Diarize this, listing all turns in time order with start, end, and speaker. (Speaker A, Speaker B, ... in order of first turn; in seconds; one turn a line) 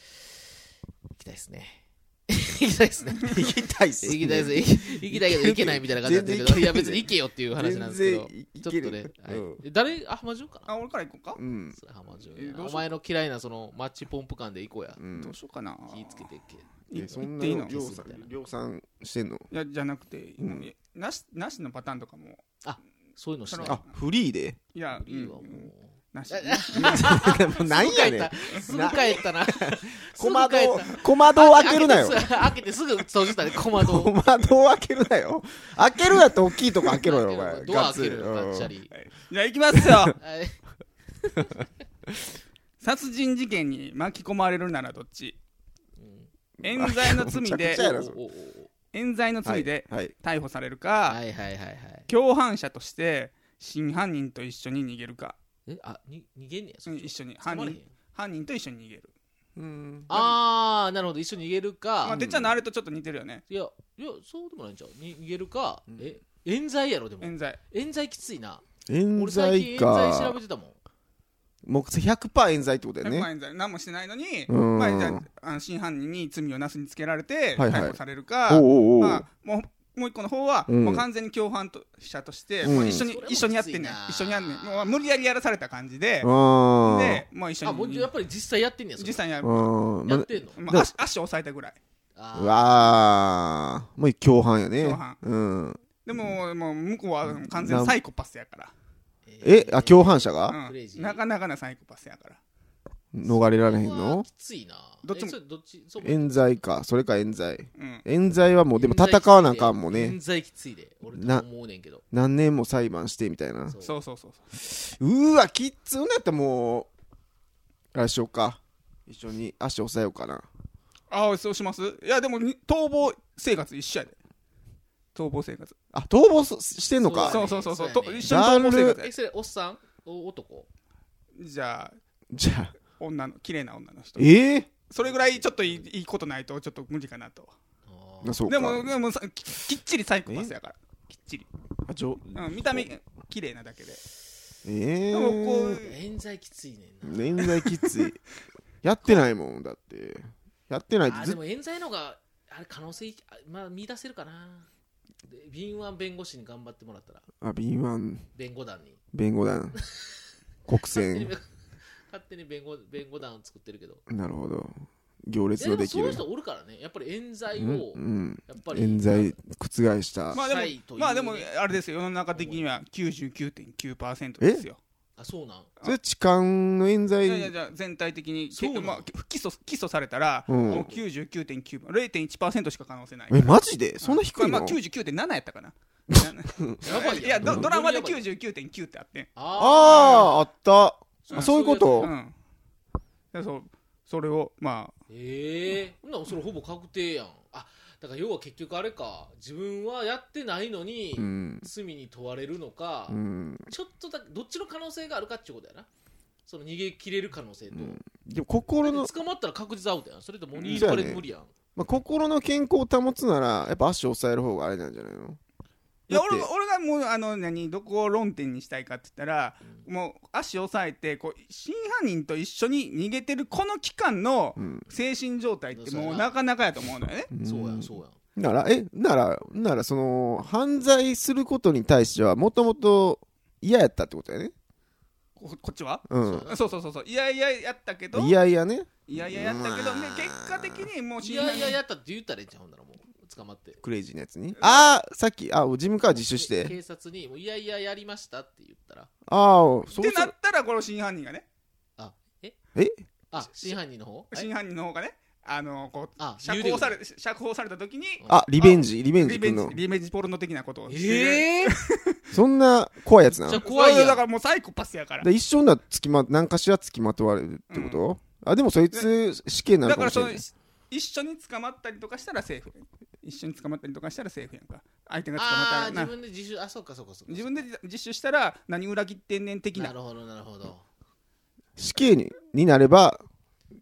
Speaker A: 1.1-3.5
Speaker B: 3.2-9.6
Speaker A: 4.0-10.7
Speaker C: 10.7-11.4
Speaker B: 11.4-11.8
Speaker A: 11.7-15.0
Speaker C: 12.3-12.9
Speaker B: 15.0-15.4
Speaker C: 15.2-16.3
Speaker A: 15.9-16.7
Speaker C: 16.9-17.8
Speaker B: 16.9-19.5
Speaker A: 17.4-18.3
Speaker C: 19.5-22.4
Speaker B: 20.4-20.7
Speaker A: 22.6-23.8
Speaker C: 23.5-23.8
Speaker B: 23.6-24.6
Speaker C: 24.7-27.3
Speaker A: 24.9-34.1
Speaker B: 26.8-32.3
Speaker B: 33.7-38.7
Speaker A: 36.8-38.9
Speaker C: 38.9-40.2
Speaker B: 39.8-40.1
Speaker A: 40.2-40.6
Speaker A: 41.1-41.7
Speaker C: 42.8-45.4
Speaker A: 46.0-46.3
Speaker B: 46.6-48.2
Speaker C: 46.6-47.9
Speaker A: 47.7-48.7
Speaker C: 48.9-51.2
Speaker B: 49.5-50.1
Speaker A: 51.1-52.1
Speaker C: 52.1-55.4
Speaker A: 55.7-57.9
Speaker C: 56.9-59.1
Speaker B: 59.6-60.1
Speaker A: 60.1-62.2
Speaker C: 60.1-60.4
Speaker C: 62.0-63.4
Speaker B: 62.1-62.6
Speaker A: 63.5-68.6
Speaker C: 67.2-67.6
Speaker B: 68.9-70.4
Speaker A: 69.2-70.8
Speaker B: 71.6-73.3
Speaker C: 73.0-86.3
Speaker B: 74.5-75.2
Speaker B: 77.6-79.2
Speaker B: 80.7-81.0
Speaker B: 82.6-83.1
Speaker A: 82.6-85.1
Speaker B: 86.2-87.2
Speaker C: 86.8-88.1
Speaker A: 87.6-89.3
Speaker C: 89.0-89.7
Speaker B: 89.4-90.9
Speaker A: 90.0-90.6
Speaker C: 90.6-91.8
Speaker A: 92.2-93.0
Speaker B: 92.4-96.3
Speaker C: 94.8-95.2
Speaker C: 96.0-98.7
Speaker B: 97.2-98.0
Speaker A: 99.3-101.2
Speaker B: 99.4-100.6
Speaker C: 100.5-102.4
Speaker B: 103.1-104.3
Speaker A: 103.2-106.6
Speaker C: 105.0-105.4
Speaker B: 106.0-110.2
Speaker C: 107.8-108.0
Speaker A: 108.7-112.0
Speaker B: 111.2-111.5
Speaker B: 112.1-113.8
Speaker A: 113.7-114.0
Speaker C: 113.8-114.5
Speaker B: 114.6-116.9
Speaker B: 117.9-120.5
Speaker C: 121.1-124.2
Speaker C: 125.2-125.8
Speaker B: 125.9-127.4
Speaker A: 127.0-130.7
Speaker C: 127.3-129.1
Speaker B: 128.2-129.0
Speaker C: 131.4-132.0
Speaker B: 132.3-132.8
Speaker C: 133.0-134.3
Speaker B: 134.2-134.7
Speaker C: 134.9-137.5
Speaker A: 135.0-135.9
Speaker A: 137.9-138.5
Speaker B: 138.2-138.9
Speaker C: 138.5-141.5
Speaker B: 140.3-140.5
Speaker B: 141.9-142.9
Speaker C: 142.3-144.0
Speaker B: 144.7-145.8
Speaker C: 145.1-145.9
Speaker A: 145.8-147.6
Speaker B: 147.0-148.2
Speaker B: 148.8-151.4
Speaker A: 151.1-154.7
Speaker A: 155.3-157.3
Speaker B: 157.4-158.3
Speaker A: 158.3-159.0
Speaker B: 159.1-159.8
Speaker A: 159.8-161.5
Speaker B: 160.7-161.3
Speaker A: 162.1-164.0
Speaker B: 164.1-166.2
Speaker A: 165.6-169.4
Speaker B: 167.5-170.4
Speaker A: 170.3-171.5
Speaker C: 170.3-174.8
Speaker A: 172.3-172.7
Speaker B: 174.4-174.7
Speaker A: 175.2-175.7
Speaker B: 175.8-177.5
Speaker C: 177.2-189.3
Speaker A: 178.5-179.1
Speaker B: 180.5-180.9
Speaker A: 180.7-181.0
Speaker B: 183.3-184.8
Speaker B: 186.1-186.8
Speaker A: 186.8-188.2
Speaker B: 187.4-187.7
Speaker A: 189.4-190.4
Speaker B: 189.6-192.1
Speaker C: 189.8-190.3
Speaker A: 191.2-192.1
Speaker C: 191.3-192.3
Speaker C: 193.3-194.9
Speaker A: 195.1-205.9
Speaker B: 201.2-201.7
Speaker B: 203.1-203.7
Speaker A: 206.5-208.0
Speaker B: 207.7-209.1
Speaker A: 208.8-211.5
Speaker C: 210.6-211.0
Speaker B: 210.7-211.2
Speaker B: 211.8-215.4
Speaker B: 216.1-216.5
Speaker C: 216.1-227.3
Speaker B: 224.6-224.8
Speaker A: 225.7-226.3
Speaker B: 227.3-234.5
Speaker A: 227.4-228.2
Speaker C: 235.4-238.3
Speaker B: 236.1-236.5
Speaker A: 236.2-236.7
Speaker B: 238.1-240.9
Speaker C: 239.1-241.8
Speaker A: 241.2-243.8
Speaker B: 243.8-246.8
Speaker C: 244.6-244.9
Speaker A: 246.1-249.1
Speaker B: 249.3-250.3
Speaker C: 250.0-251.5
Speaker A: 252.0-252.6
Speaker A: 253.3-254.5
Speaker C: 254.3-262.2
Speaker A: 256.2-257.0
Speaker A: 258.2-258.5
Speaker B: 258.3-259.8
Speaker A: 260.9-261.8
Speaker B: 262.3-263.6
Speaker A: 263.4-264.2
Speaker C: 263.6-265.3
Speaker B: 265.2-270.4
Speaker C: 267.7-268.0
Speaker C: 269.9-276.1
Speaker A: 275.4-277.7
Speaker C: 277.3-279.9
Speaker A: 279.8-280.9
Speaker B: 281.8-283.2